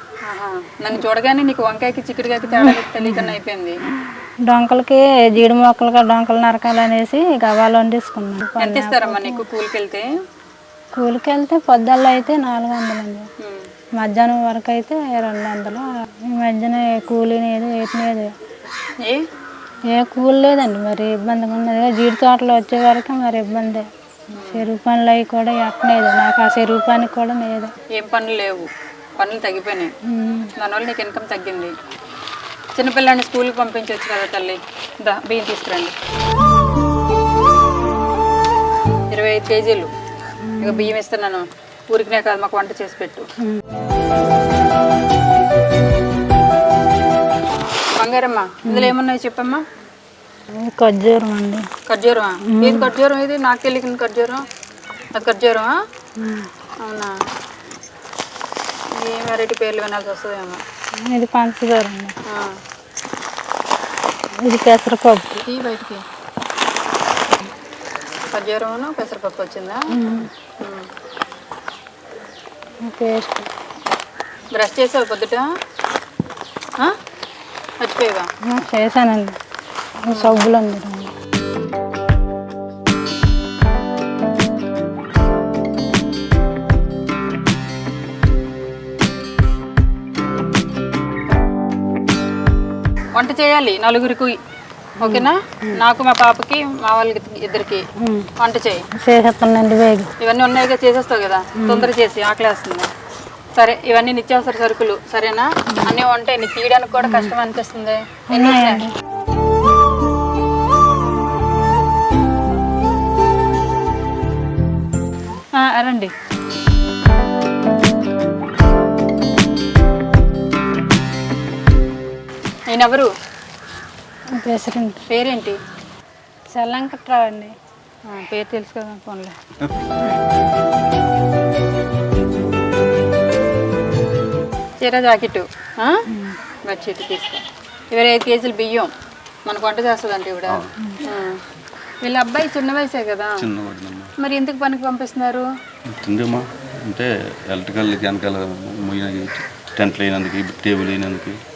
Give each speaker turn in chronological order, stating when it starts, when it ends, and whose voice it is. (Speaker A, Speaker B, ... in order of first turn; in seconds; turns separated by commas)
Speaker A: 0.2-3.8, Speaker B: 2.5-9.4, Speaker A: 8.6-10.1, Speaker B: 10.9-13.3, Speaker A: 13.4-13.7, Speaker B: 14.0-18.3, Speaker B: 19.9-23.9, Speaker A: 24.3-24.7, Speaker B: 24.4-27.7, Speaker A: 27.9-29.9, Speaker B: 30.0-30.5, Speaker A: 30.6-31.7, Speaker A: 32.8-35.9, Speaker A: 39.1-39.9, Speaker B: 40.4-41.0, Speaker A: 40.6-43.3, Speaker A: 47.9-49.6, Speaker B: 48.6-49.0, Speaker B: 50.5-51.7, Speaker A: 51.9-54.5, Speaker B: 52.4-52.9, Speaker A: 55.1-55.8, Speaker B: 56.2-56.5, Speaker A: 56.8-57.2, Speaker A: 58.9-60.6, Speaker B: 61.0-62.2, Speaker A: 62.2-62.6, Speaker B: 64.3-65.4, Speaker A: 65.5-66.0, Speaker A: 68.3-69.8, Speaker B: 69.9-70.4, Speaker A: 70.6-70.9, Speaker B: 72.8-73.5, Speaker A: 74.5-75.5, Speaker A: 77.8-78.3, Speaker B: 78.5-79.4, Speaker B: 80.0-81.1, Speaker A: 80.1-80.5, Speaker A: 93.1-94.4, Speaker B: 95.0-95.8, Speaker A: 95.0-97.8, Speaker B: 97.9-98.3, Speaker A: 98.4-98.9, Speaker B: 98.9-100.1, Speaker A: 100.2-102.9, Speaker B: 101.5-101.9, Speaker A: 103.5-108.9, Speaker B: 105.7-106.0, Speaker B: 107.0-107.3, Speaker B: 108.3-108.9, Speaker A: 115.5-116.1, Speaker A: 122.7-123.1, Speaker B: 124.3-125.0, Speaker A: 125.1-125.6, Speaker B: 126.5-127.5, Speaker A: 128.1-129.4, Speaker A: 134.8-136.0, Speaker B: 136.1-136.4, Speaker A: 136.7-138.9, Speaker A: 139.4-141.4, Speaker B: 140.8-141.1, Speaker A: 142.0-143.5, Speaker C: 143.4-144.1, Speaker A: 144.2-145.5, Speaker C: 145.9-151.3